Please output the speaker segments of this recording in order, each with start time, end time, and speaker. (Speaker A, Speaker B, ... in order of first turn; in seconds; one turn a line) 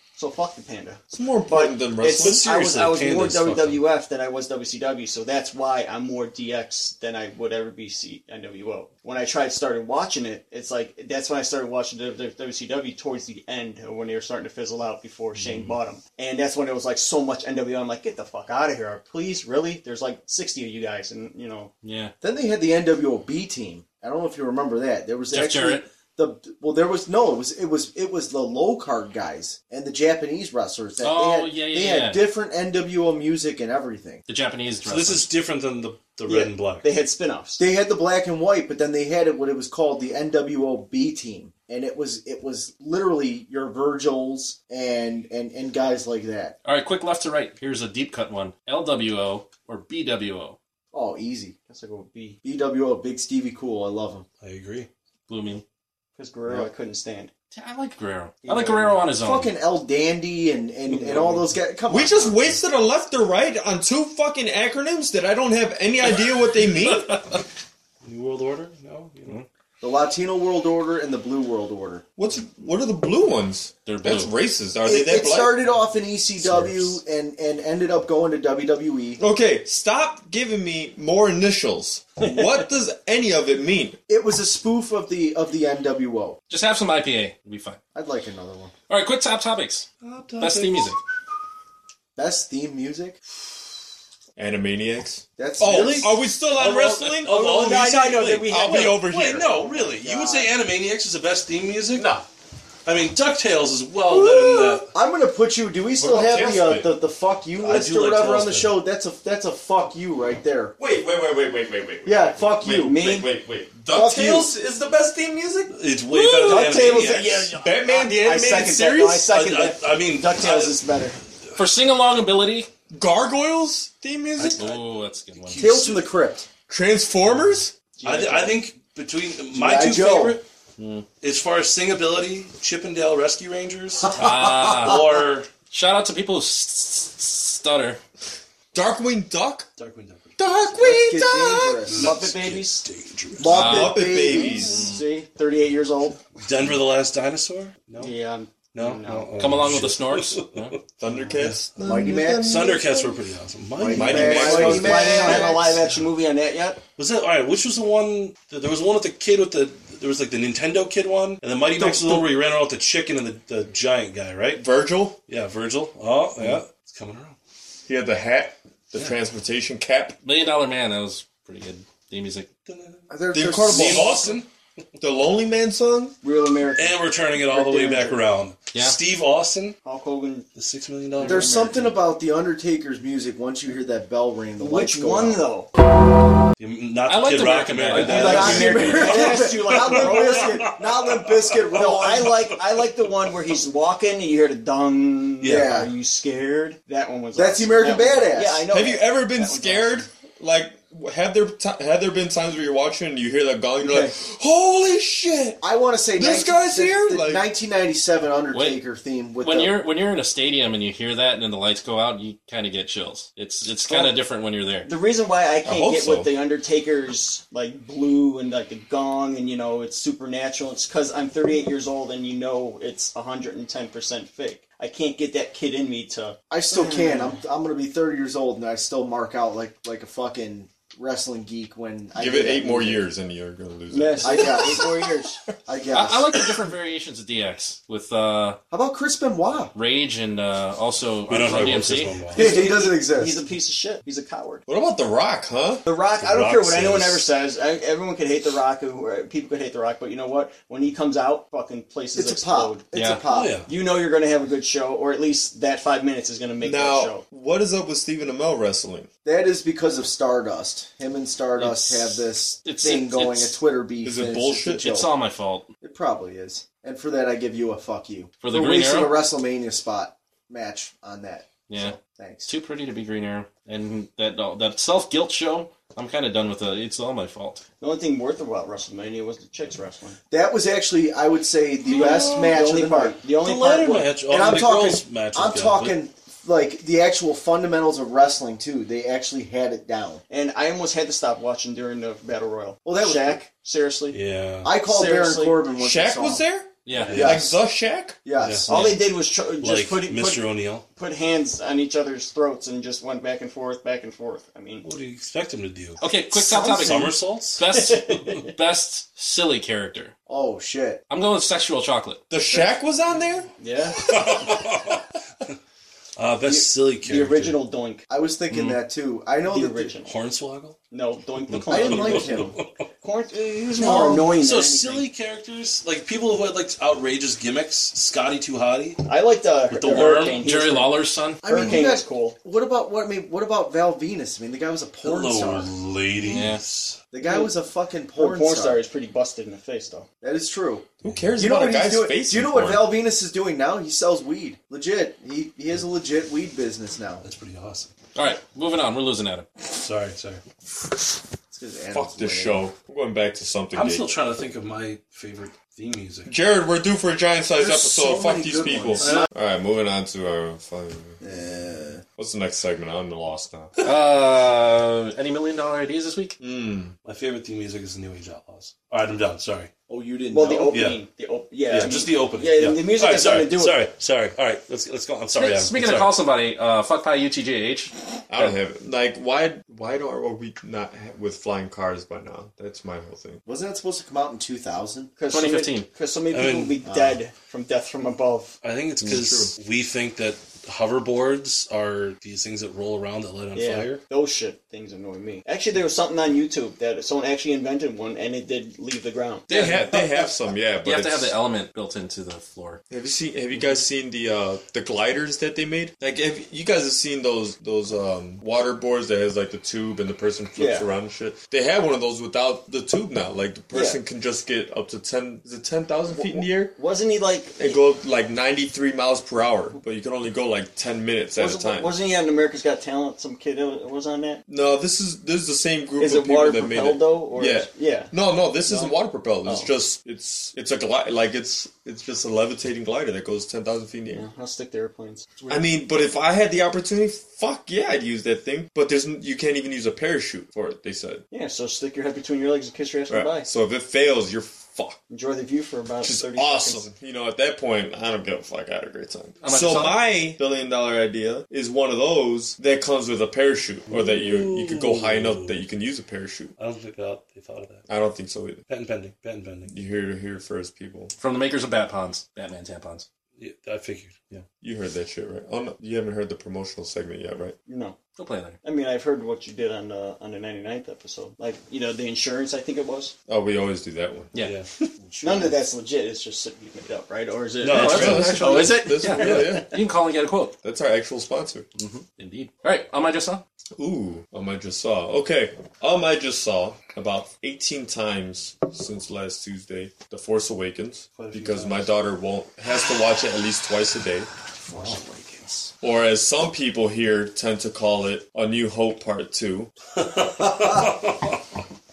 Speaker A: 0.1-21.7
Speaker B: 1.1-2.5
Speaker C: 2.2-3.8
Speaker D: 21.8-22.1
Speaker E: 22.2-34.2
Speaker D: 25.3-25.8
Speaker D: 31.0-32.3
Speaker D: 34.3-35.3
Speaker C: 34.8-36.9
Speaker A: 36.3-37.6
Speaker E: 37.6-46.5
Speaker D: 46.6-50.6
Speaker E: 50.9-51.5
Speaker A: 51.7-52.4
Speaker E: 52.4-54.2
Speaker C: 54.4-54.9
Speaker D: 55.3-55.6
Speaker A: 56.1-57.3
Speaker D: 57.5-59.5
Speaker A: 58.5-59.0
Speaker E: 59.2-62.6
Speaker C: 60.9-61.6
Speaker B: 61.9-67.4
Speaker C: 68.0-69.4
Speaker E: 69.8-72.0
Speaker B: 72.2-75.6
Speaker D: 73.8-74.3
Speaker E: 74.8-79.2
Speaker B: 79.2-84.0
Speaker A: 82.2-82.5
Speaker E: 84.1-86.4
Speaker D: 86.5-87.8
Speaker E: 87.9-88.7
Speaker D: 88.9-89.9
Speaker C: 90.0-90.9
Speaker D: 90.4-91.0
Speaker E: 92.2-93.2
Speaker B: 94.3-99.5
Speaker E: 95.4-96.1
Speaker C: 95.7-102.1
Speaker A: 97.3-99.1
Speaker E: 99.7-100.5
Speaker B: 101.9-102.2
Speaker C: 102.8-104.9
Speaker B: 104.1-104.9
Speaker E: 104.9-110.7
Speaker B: 106.0-106.9
Speaker C: 107.6-108.8
Speaker B: 110.8-119.3
Speaker E: 112.0-113.0
Speaker A: 112.6-113.3
Speaker E: 113.9-114.5
Speaker C: 115.7-117.5
Speaker A: 116.4-121.2
Speaker C: 119.3-120.8
Speaker D: 121.5-122.7
Speaker B: 122.9-124.7
Speaker C: 124.4-124.8
Speaker D: 124.6-125.6
Speaker C: 125.3-126.0
Speaker E: 125.6-126.5
Speaker B: 126.7-127.8
Speaker A: 128.0-128.6
Speaker C: 128.0-130.4
Speaker E: 129.5-130.4
Speaker D: 130.8-131.0
Speaker C: 131.2-135.5
Speaker D: 134.2-135.0
Speaker D: 135.7-138.0
Speaker B: 138.7-139.7
Speaker C: 139.8-140.4
Speaker B: 140.4-141.9
Speaker E: 140.7-142.1
Speaker C: 141.9-143.5
Speaker A: 141.9-142.8
Speaker E: 143.4-144.9
Speaker B: 143.5-144.8
Speaker D: 143.5-144.0
Speaker A: 144.3-146.3
Speaker D: 144.7-145.0
Speaker C: 146.4-148.1
Speaker A: 148.0-149.6
Speaker C: 148.7-150.8
Speaker D: 149.4-150.8
Speaker B: 151.0-153.2
Speaker A: 151.1-151.4
Speaker C: 151.3-151.7
Speaker E: 151.8-152.7
Speaker C: 152.4-155.6
Speaker E: 153.8-155.7
Speaker B: 153.9-155.4
Speaker A: 154.3-156.8
Speaker C: 157.0-164.6
Speaker E: 161.8-162.2
Speaker B: 164.6-165.2
Speaker C: 165.3-167.4
Speaker B: 167.9-170.2
Speaker D: 170.2-172.5
Speaker C: 172.7-173.1
Speaker E: 173.1-174.2
Speaker B: 173.3-174.4
Speaker C: 173.7-174.5
Speaker B: 175.0-176.2
Speaker A: 176.2-178.2
Speaker C: 176.7-179.8
Speaker A: 179.8-180.5
Speaker C: 180.5-181.6
Speaker A: 181.2-182.0
Speaker E: 181.2-185.4
Speaker A: 184.6-185.7
Speaker C: 186.6-192.3
Speaker D: 187.1-189.0
Speaker E: 187.9-192.5
Speaker A: 188.1-190.8
Speaker A: 191.8-200.1
Speaker C: 195.4-195.8
Speaker E: 195.4-195.9
Speaker E: 197.3-198.6
Speaker B: 198.7-205.6
Speaker A: 203.8-204.2
Speaker E: 205.6-209.7
Speaker B: 206.2-207.4
Speaker D: 208.5-208.8
Speaker D: 209.4-214.9
Speaker A: 213.8-214.2
Speaker A: 214.8-227.4
Speaker B: 215.6-216.3
Speaker E: 226.5-233.0
Speaker B: 232.2-234.8
Speaker A: 233.9-235.4
Speaker E: 234.2-234.9
Speaker E: 235.7-236.4
Speaker D: 235.9-238.6
Speaker E: 238.7-239.7
Speaker D: 239.7-242.2
Speaker C: 241.3-242.5
Speaker A: 242.3-244.6
Speaker E: 242.3-243.4
Speaker B: 244.7-245.8
Speaker A: 245.8-252.8
Speaker C: 246.1-247.3
Speaker E: 252.1-253.6
Speaker D: 252.9-253.2
Speaker C: 253.3-253.7
Speaker A: 253.7-257.2
Speaker B: 256.6-259.1
Speaker E: 259.2-265.1
Speaker D: 261.6-263.6
Speaker B: 264.0-264.9
Speaker D: 264.8-265.7
Speaker E: 265.8-272.5
Speaker D: 268.4-269.2
Speaker D: 271.7-271.9
Speaker D: 272.5-277.6
Speaker A: 277.8-280.2
Speaker E: 280.3-283.2
Speaker A: 281.9-284.1
Speaker C: 281.9-282.6
Speaker C: 283.4-286.0
Speaker E: 284.3-290.2
Speaker A: 290.3-294.2
Speaker E: 292.8-293.4
Speaker C: 294.1-294.7
Speaker E: 294.6-296.4
Speaker A: 294.8-295.7
Speaker B: 295.8-298.2
Speaker D: 296.8-297.2
Speaker C: 297.0-297.5
Speaker E: 297.1-297.6
Speaker E: 298.2-298.9
Speaker C: 298.4-299.0
Speaker A: 298.7-304.9
Speaker C: 299.6-300.8
Speaker C: 304.8-306.0
Speaker D: 306.0-310.1
Speaker A: 306.3-307.0
Speaker C: 306.5-307.6
Speaker A: 307.7-308.5
Speaker E: 310.3-311.0
Speaker D: 311.1-312.2
Speaker B: 312.3-313.5
Speaker A: 313.6-314.6
Speaker C: 314.0-315.0
Speaker C: 316.2-317.6
Speaker A: 317.0-318.0
Speaker E: 318.1-319.9
Speaker D: 318.5-318.8
Speaker A: 319.4-320.1
Speaker C: 320.0-320.8
Speaker A: 320.9-325.1
Speaker C: 321.6-322.8
Speaker E: 321.7-322.6
Speaker E: 323.8-324.3
Speaker C: 323.8-329.0
Speaker A: 329.0-332.4
Speaker C: 329.8-330.3
Speaker D: 329.9-331.4
Speaker E: 331.4-335.7
Speaker C: 335.0-337.0
Speaker D: 336.2-336.6
Speaker E: 337.1-338.8
Speaker A: 337.2-337.5
Speaker A: 338.2-340.1
Speaker E: 340.2-347.2
Speaker C: 341.0-341.3
Speaker B: 341.0-342.9
Speaker C: 347.2-347.9
Speaker D: 348.1-349.5
Speaker C: 349.8-350.4
Speaker E: 351.5-352.6
Speaker B: 351.9-354.1
Speaker C: 353.7-356.3
Speaker B: 356.2-361.2
Speaker E: 357.6-359.3
Speaker C: 359.0-359.3
Speaker E: 361.2-362.0
Speaker B: 362.2-363.7
Speaker D: 363.8-366.4
Speaker B: 366.4-366.9
Speaker C: 367.0-369.7
Speaker E: 369.9-370.8
Speaker A: 370.3-373.8
Speaker C: 370.7-371.0
Speaker C: 371.7-376.1
Speaker D: 375.4-378.5
Speaker B: 378.3-383.4
Speaker E: 383.4-385.1
Speaker A: 385.2-388.6
Speaker D: 385.3-385.9
Speaker C: 386.3-386.8
Speaker E: 386.8-387.2
Speaker C: 388.6-394.0
Speaker B: 389.0-389.5
Speaker A: 393.5-399.7
Speaker B: 399.5-401.3
Speaker D: 399.5-402.8
Speaker B: 402.9-416.8
Speaker A: 410.6-410.9
Speaker A: 413.7-414.0
Speaker A: 416.1-417.8
Speaker B: 417.6-421.9
Speaker A: 421.3-424.4
Speaker B: 424.5-434.2
Speaker A: 426.0-428.1
Speaker A: 428.6-429.7
Speaker A: 434.1-435.7
Speaker B: 435.5-441.2
Speaker A: 441.3-443.5
Speaker B: 443.1-445.0
Speaker A: 445.1-446.9
Speaker B: 446.0-456.5
Speaker D: 449.4-450.0
Speaker C: 453.9-455.6
Speaker C: 456.6-457.9
Speaker B: 457.9-458.6
Speaker C: 458.7-459.7
Speaker B: 459.7-461.1
Speaker D: 461.2-463.1
Speaker C: 463.4-464.4
Speaker B: 464.6-467.6
Speaker A: 467.7-468.0
Speaker D: 468.2-468.6
Speaker A: 468.6-473.1
Speaker B: 473.3-474.3
Speaker C: 474.3-474.9
Speaker E: 475.0-475.6
Speaker A: 475.2-479.6
Speaker C: 477.6-478.5
Speaker D: 477.7-480.6
Speaker B: 477.8-479.8
Speaker C: 479.2-479.5
Speaker B: 480.6-481.6
Speaker D: 481.8-483.4
Speaker B: 483.8-494.3
Speaker C: 491.1-491.9
Speaker E: 494.6-495.7
Speaker B: 495.8-499.7
Speaker C: 500.0-501.2